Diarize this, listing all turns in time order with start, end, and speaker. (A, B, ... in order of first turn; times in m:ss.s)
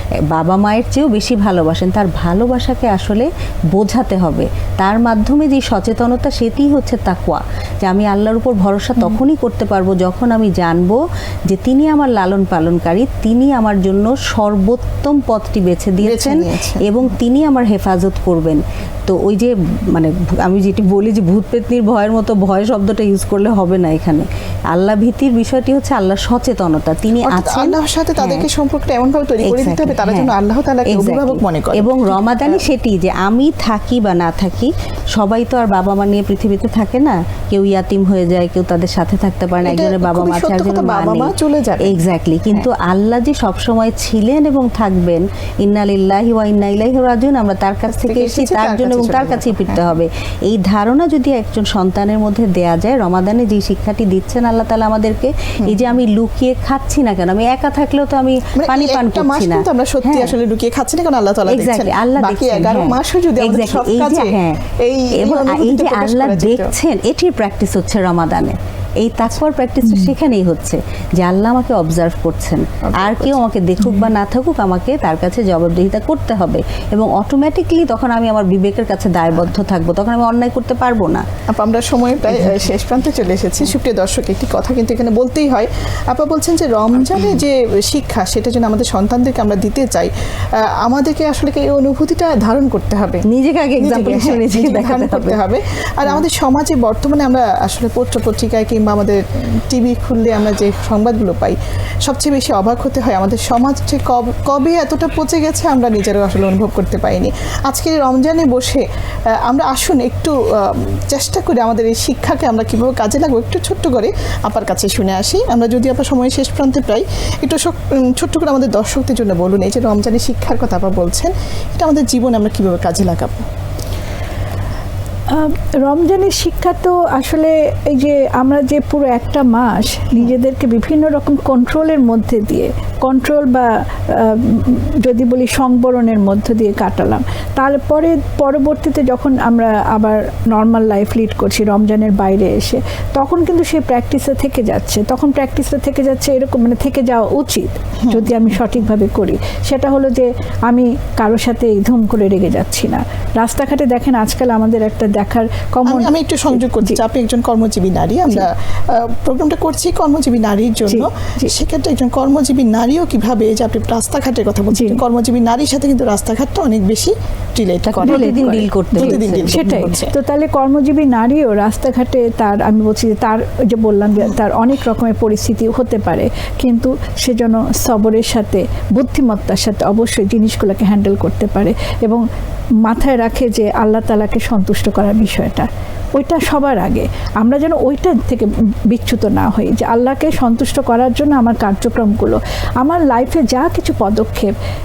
0:00.3-0:28.5 A
0:16.0-0:16.9 B
0:27.2-0:32.6 B
0:29.4-0:30.3 A
0:30.8-1:00.3 A
0:39.6-0:42.0 B
0:47.9-0:50.0 B
0:55.6-0:55.9 B
0:58.6-1:06.7 B
1:01.5-1:21.2 A
1:12.9-1:13.4 B
1:21.5-1:33.2 B
1:33.2-1:35.4 A
1:33.8-1:48.8 B
1:49.4-2:03.4 B
2:05.3-2:37.0 C
2:28.0-2:28.4 B
2:35.8-2:50.1 B
2:40.9-2:41.5 C
2:44.7-2:45.0 C
2:47.9-2:50.0 A
2:48.0-3:02.2 C
3:02.8-3:14.5 C